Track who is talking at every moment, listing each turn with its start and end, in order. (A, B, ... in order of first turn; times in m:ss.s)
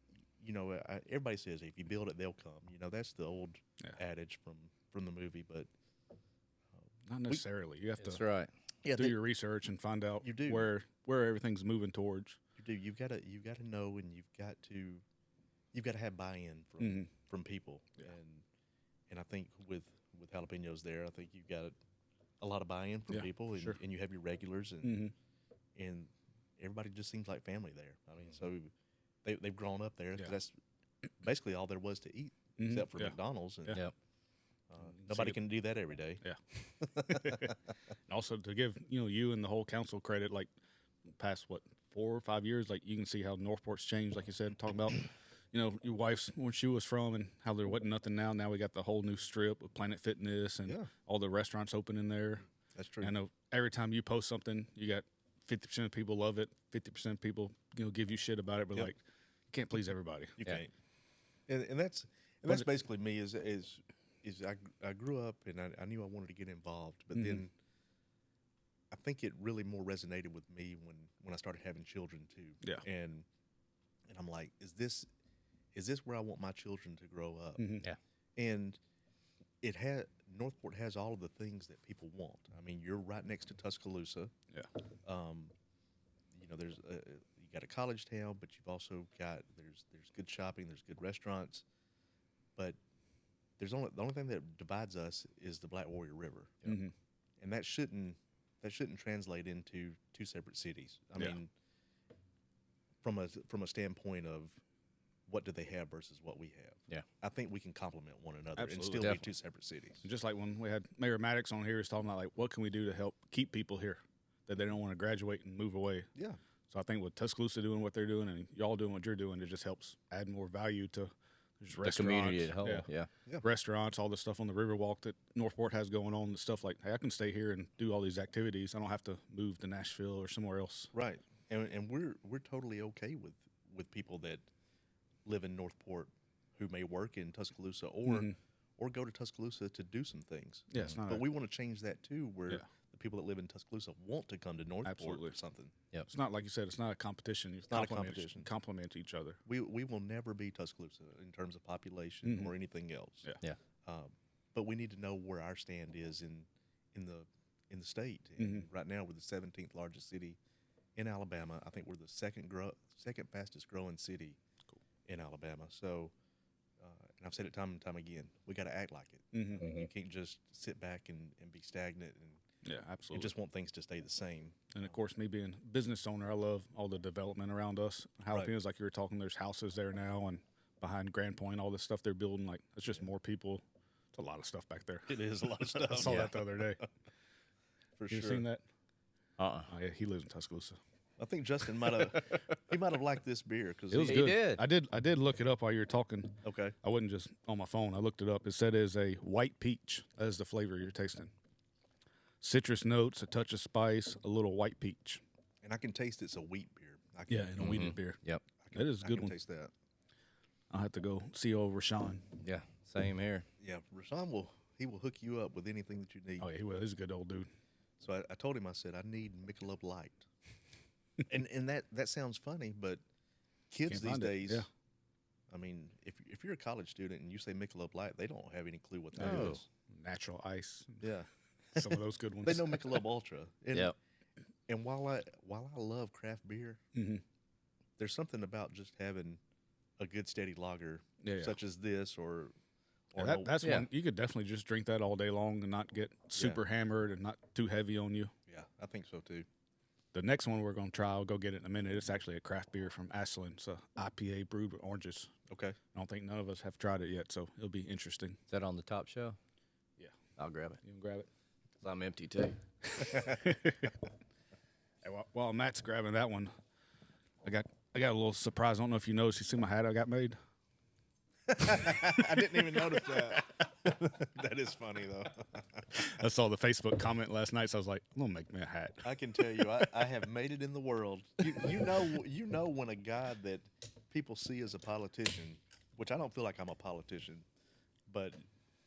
0:00.4-0:05.7 A
0:07.1-0:08.2 B
0:08.0-0:08.5 C
0:08.8-0:09.2 A
0:08.8-0:12.4 B
0:10.2-0:10.7 A
0:12.6-0:15.0 A
0:15.7-0:18.4 A
0:16.8-0:17.1 B
0:19.1-0:21.8 A
0:22.4-0:25.0 A
0:23.1-0:23.8 B
0:24.8-0:25.1 B
0:25.8-0:28.7 A
0:29.2-0:30.6 A
0:31.2-0:33.8 A
0:32.6-0:33.2 B
0:34.7-0:36.2 A
0:34.8-0:35.5 B
0:36.2-0:37.6 B
0:38.1-0:40.5 B
0:41.2-0:52.4 B
0:52.7-0:53.1 A
0:53.0-1:00.4 B
1:00.4-1:00.7 A
1:01.5-1:07.5 A
1:02.4-1:02.7 B
1:07.1-1:07.4 B
1:08.9-1:13.2 A
1:14.1-1:15.1 A
1:15.7-1:17.6 A
1:17.6-1:17.9 B
1:18.4-1:18.8 A
1:19.6-1:24.3 A
1:25.0-1:25.5 A
1:26.3-1:31.6 A
1:33.6-1:36.6 A
1:36.6-1:36.9 B
1:37.4-1:41.5 A
1:43.0-1:44.6 A
1:45.3-1:50.0 A
1:48.5-1:49.2 B
1:49.0-1:49.2 C
1:50.0-1:56.1 B
1:56.7-2:02.9 B
2:01.8-2:03.1 C
2:03.4-2:10.9 B
2:10.9-2:14.4 A
2:15.2-2:25.8 A
2:18.0-2:18.4 B
2:20.7-2:21.4 B
2:24.8-2:25.4 B
2:26.0-2:29.4 B
2:27.7-2:28.5 A
2:29.4-2:33.3 A
2:32.2-2:32.6 B
2:33.8-2:40.4 A
2:38.4-2:38.7 B
2:41.0-2:44.4 A
2:45.0-2:46.1 A
2:46.8-2:52.4 A
2:49.3-2:49.8 B
2:49.6-2:49.9 C
2:52.6-2:53.3 B
2:53.2-2:54.6 A
2:54.7-3:06.8 B
3:05.0-3:06.3 A
3:06.0-3:06.3 C
3:08.0-3:08.4 A
3:08.1-3:08.6 B
3:09.4-3:09.7 C
3:09.7-3:10.8 B
3:11.2-3:14.0 A
3:11.8-3:12.4 B
3:13.9-3:21.3 B
3:14.0-3:14.6 C
3:16.4-3:16.8 A
3:22.4-3:25.2 B
3:25.6-3:27.6 A
3:27.3-3:28.2 B
3:27.6-3:28.4 C
3:28.6-3:29.7 A
3:28.7-3:29.4 B
3:30.7-3:32.4 B
3:32.4-3:33.5 C
3:33.6-3:36.4 A
3:36.4-3:37.5 B
3:38.0-3:40.2 A
3:41.3-3:43.0 A
3:43.7-3:44.6 A
3:43.9-3:44.7 B
3:45.5-3:49.6 A
3:49.2-3:53.0 B
3:49.2-3:49.6 C
3:51.0-3:51.9 A
3:52.4-3:53.9 A
3:54.7-3:56.8 A
3:56.9-3:57.2 B
3:58.0-3:59.4 A
4:00.0-4:02.5 A
4:01.2-4:01.6 B
4:03.1-4:03.6 A
4:03.1-4:08.3 B
4:03.6-4:03.9 C
4:06.3-4:06.6 A
4:08.5-4:09.4 A
4:10.1-4:15.3 B
4:15.5-4:15.8 A
4:15.9-4:18.4 B
4:18.5-4:19.4 C
4:20.4-4:20.8 C
4:20.8-4:21.3 B
4:21.8-4:22.6 C
4:22.9-4:23.9 B
4:25.0-4:26.5 B
4:27.4-4:30.4 B
4:31.6-4:35.8 A
4:31.6-4:33.3 B
4:35.9-4:40.0 B
4:39.0-4:47.4 A
4:41.7-4:42.0 B
4:48.1-4:48.4 A